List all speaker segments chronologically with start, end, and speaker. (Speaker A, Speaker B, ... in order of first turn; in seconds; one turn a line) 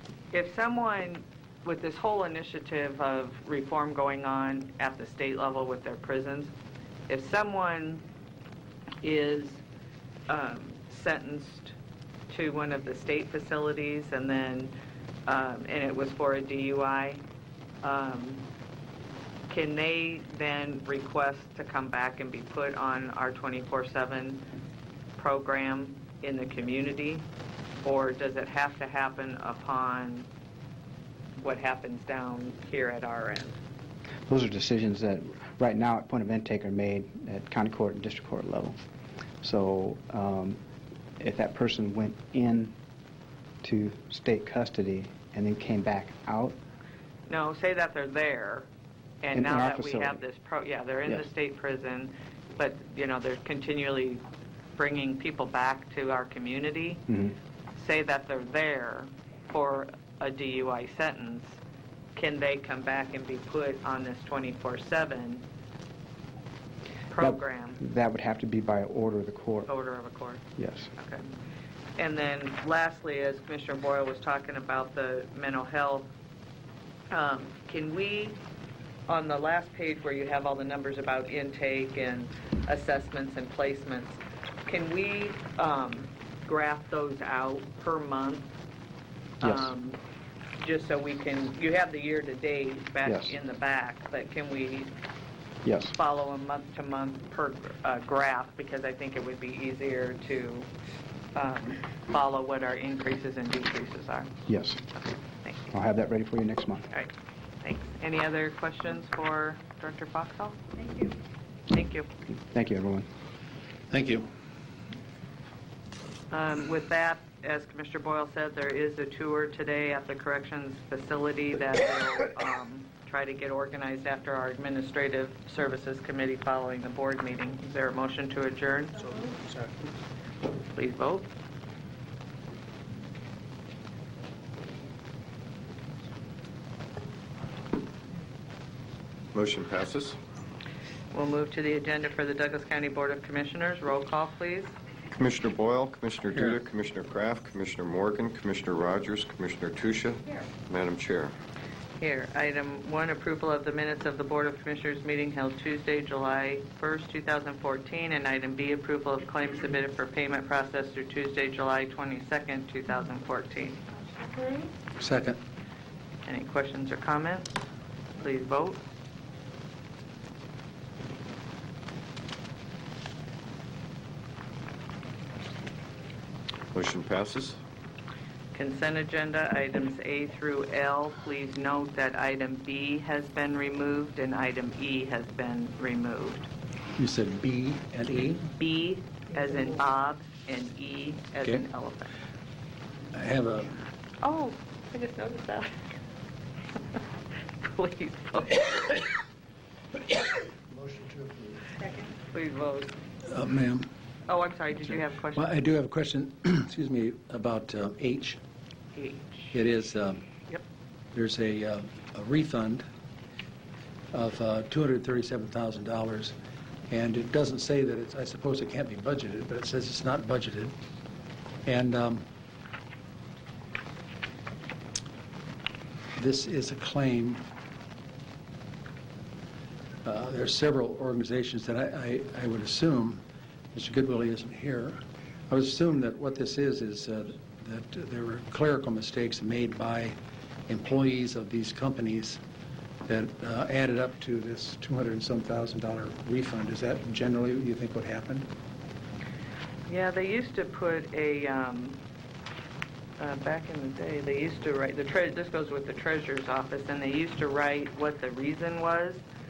Speaker A: 0.3-6.5
Speaker A: 7.1-8.1
Speaker A: 9.0-9.6
Speaker A: 10.3-11.8
Speaker A: 12.3-14.7
Speaker A: 15.3-17.2
Speaker A: 17.8-18.4
Speaker A: 19.5-24.5
Speaker A: 25.2-27.3
Speaker A: 27.8-30.3
Speaker A: 31.4-33.6
Speaker B: 34.3-38.8
Speaker B: 39.4-40.6
Speaker B: 41.2-42.8
Speaker B: 43.6-46.6
Speaker A: 47.3-48.7
Speaker A: 49.2-54.2
Speaker B: 49.3-50.2
Speaker A: 54.8-57.1
Speaker B: 57.1-57.3
Speaker A: 57.8-61.6
Speaker A: 62.1-65.5
Speaker A: 67.1-67.8
Speaker B: 67.2-69.7
Speaker A: 69.7-70.4
Speaker B: 70.6-70.9
Speaker A: 71.0-71.3
Speaker A: 72.0-76.1
Speaker A: 77.1-78.4
Speaker A: 79.1-88.5
Speaker A: 89.4-90.0
Speaker B: 89.4-89.7
Speaker A: 90.6-94.9
Speaker B: 93.0-93.3
Speaker B: 95.7-95.9
Speaker A: 95.9-100.7
Speaker A: 101.3-104.3
Speaker B: 104.5-104.8
Speaker B: 105.7-106.9
Speaker A: 106.9-111.1
Speaker A: 111.7-112.1
Speaker B: 112.5-113.1
Speaker C: 113.9-114.3
Speaker A: 116.3-129.4
Speaker A: 130.7-131.3
Speaker D: 139.3-140.2
Speaker A: 141.1-144.7
Speaker D: 145.2-151.3
Speaker A: 152.0-164.7
Speaker C: 165.0-165.4
Speaker A: 166.3-167.6
Speaker A: 168.2-168.8
Speaker D: 176.7-177.6
Speaker A: 178.5-186.5
Speaker C: 187.0-188.5
Speaker A: 188.6-192.1
Speaker C: 193.1-193.8
Speaker A: 194.2-195.8
Speaker A: 197.6-199.1
Speaker A: 201.8-202.9
Speaker C: 203.3-203.9
Speaker A: 204.3-205.5
Speaker C: 205.3-208.4
Speaker A: 208.9-209.6
Speaker C: 209.5-210.2
Speaker C: 211.1-212.8
Speaker C: 214.1-216.3
Speaker C: 216.9-220.8
Speaker C: 221.7-222.3
Speaker C: 226.2-227.4
Speaker C: 230.1-233.2
Speaker C: 233.7-240.2
Speaker C: 240.7-242.4
Speaker C: 243.1-248.5
Speaker A: 249.9-252.0
Speaker A: 253.2-259.2